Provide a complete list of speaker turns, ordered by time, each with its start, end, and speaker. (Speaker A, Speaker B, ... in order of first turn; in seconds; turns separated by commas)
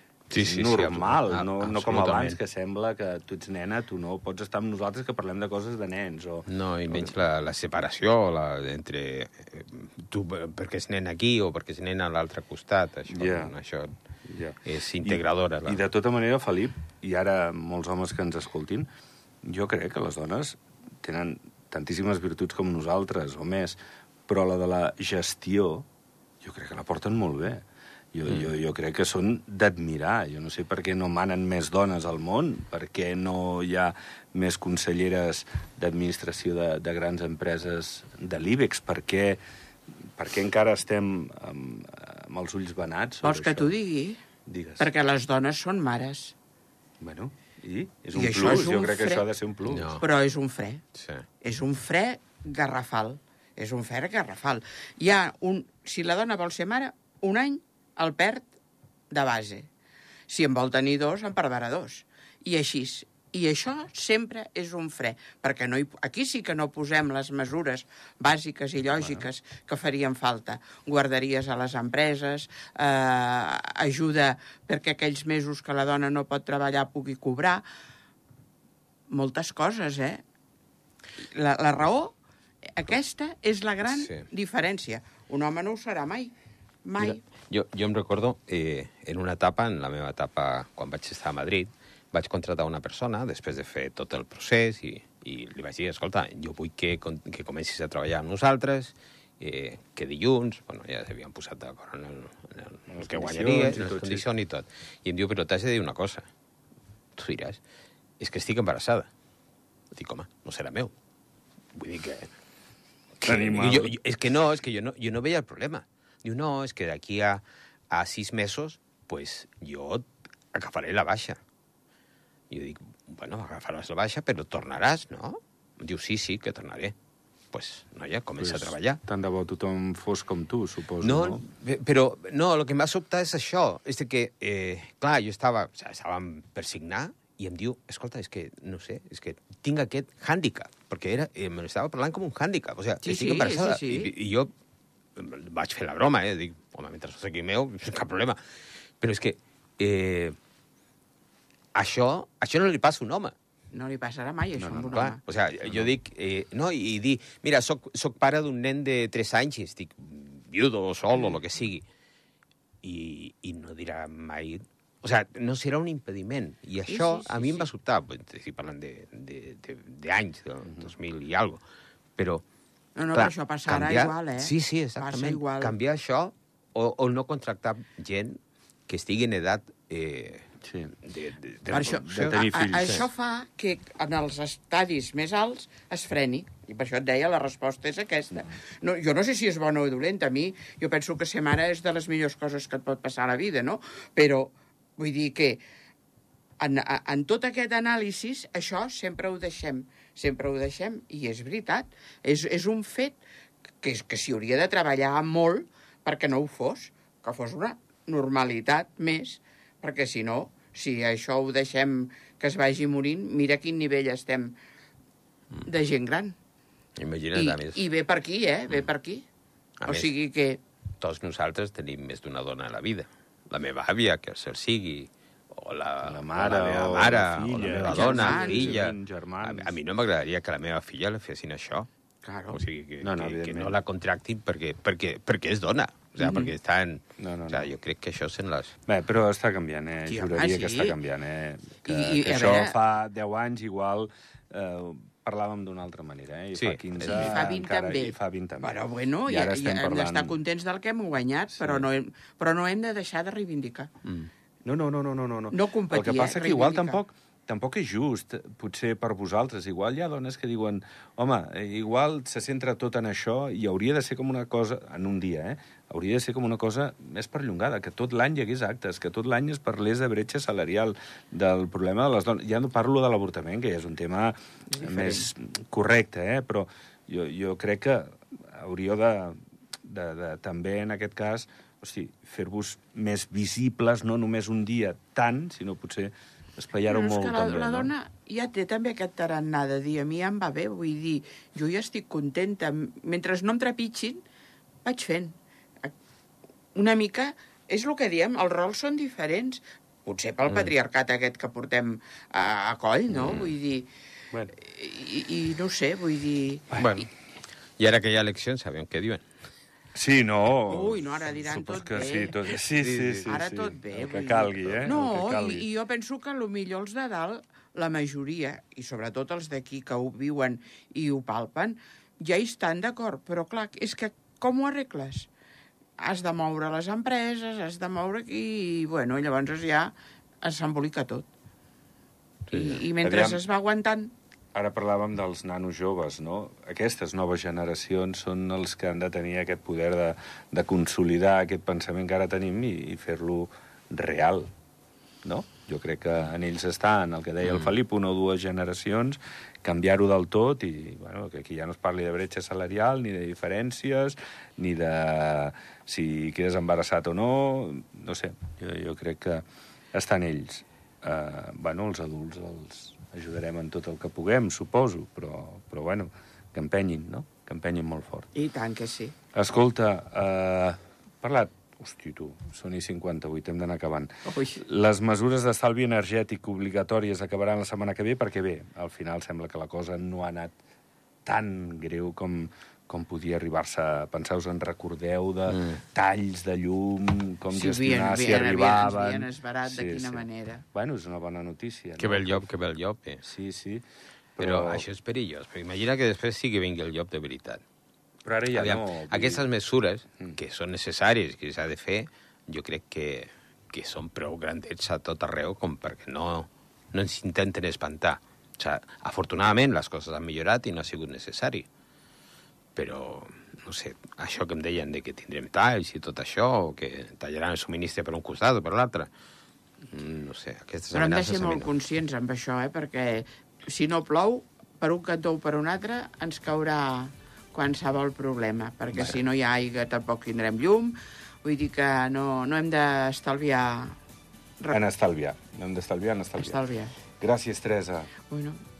Speaker A: 0.3-7.2, Speaker B: 0.3-2.4, Speaker B: 6.5-13.9, Speaker A: 13.1-13.6, Speaker A: 14.3-18.9, Speaker B: 14.7-15.8, Speaker A: 19.4-25.9, Speaker A: 26.4-27.6, Speaker A: 28.1-39.4, Speaker A: 40.2-43.7, Speaker C: 43.2-44.2, Speaker A: 44.5-44.9, Speaker C: 44.8-46.4, Speaker A: 47.0-49.9, Speaker C: 48.1-49.3, Speaker B: 49.7-50.0, Speaker C: 50.0-50.8, Speaker B: 51.0-51.3, Speaker C: 51.4-58.5, Speaker C: 59.1-59.7, Speaker C: 60.3-77.6, Speaker A: 69.0-69.3, Speaker C: 79.1-80.2, Speaker C: 81.2-82.2, Speaker C: 82.7-86.3, Speaker B: 83.8-84.3, Speaker C: 86.8-87.2, Speaker B: 87.0-106.3, Speaker A: 102.9-104.3, Speaker B: 107.2-107.6, Speaker B: 108.2-109.1, Speaker B: 109.9-110.9, Speaker B: 111.7-112.3, Speaker B: 113.2-121.4, Speaker A: 113.2-114.0, Speaker B: 122.5-127.0, Speaker B: 127.5-129.0, Speaker A: 128.4-131.4, Speaker B: 131.0-144.5, Speaker C: 143.0-144.1, Speaker B: 145.2-148.4, Speaker B: 149.0-150.3, Speaker B: 151.8-153.3, Speaker C: 153.7-155.2, Speaker B: 154.8-161.9, Speaker A: 155.7-155.9, Speaker B: 162.8-171.6, Speaker C: 166.9-167.7, Speaker A: 170.7-170.9, Speaker B: 172.2-172.4, Speaker C: 173.0-175.8, Speaker B: 173.1-180.5, Speaker A: 180.6-180.9, Speaker B: 181.0-183.1, Speaker C: 181.7-195.6, Speaker A: 181.8-183.1, Speaker C: 196.6-203.2, Speaker C: 203.8-214.6, Speaker C: 215.7-216.4, Speaker B: 217.0-217.8, Speaker C: 217.3-219.3, Speaker B: 219.8-220.1, Speaker C: 219.8-220.6, Speaker B: 221.0-231.9, Speaker A: 226.0-229.8, Speaker C: 227.8-228.8, Speaker C: 232.2-232.6, Speaker B: 232.5-238.7, Speaker A: 233.0-233.8, Speaker C: 236.2-236.5, Speaker A: 237.2-237.7, Speaker A: 238.9-250.4, Speaker C: 240.1-241.0, Speaker C: 241.8-242.8, Speaker B: 246.6-247.5, Speaker C: 247.0-253.9, Speaker B: 254.1-254.3, Speaker A: 254.7-287.9, Speaker C: 255.5-257.0, Speaker C: 274.7-275.3, Speaker C: 286.9-294.2, Speaker C: 294.9-295.9, Speaker C: 296.8-303.9, Speaker B: 303.1-303.5, Speaker C: 304.5-306.7, Speaker A: 306.7-307.1, Speaker B: 306.8-307.1, Speaker B: 307.8-309.2, Speaker A: 309.9-315.7, Speaker C: 310.7-312.4, Speaker B: 312.8-313.4, Speaker C: 313.3-325.3, Speaker C: 326.0-331.3, Speaker C: 332.5-334.1, Speaker A: 333.0-333.4, Speaker A: 334.5-344.5, Speaker A: 345.2-368.3, Speaker C: 368.3-369.1, Speaker A: 369.3-380.6, Speaker C: 374.2-374.6, Speaker A: 381.3-392.5, Speaker B: 385.5-385.8, Speaker C: 387.5-390.6, Speaker B: 392.0-393.2, Speaker A: 393.2-393.9, Speaker A: 394.4-394.8, Speaker B: 394.4-397.6, Speaker A: 398.2-399.5, Speaker B: 398.5-411.7, Speaker B: 412.8-419.1, Speaker B: 419.9-421.7, Speaker C: 420.9-434.0, Speaker A: 434.7-436.6, Speaker C: 436.4-436.9, Speaker A: 437.2-438.1, Speaker C: 438.3-438.6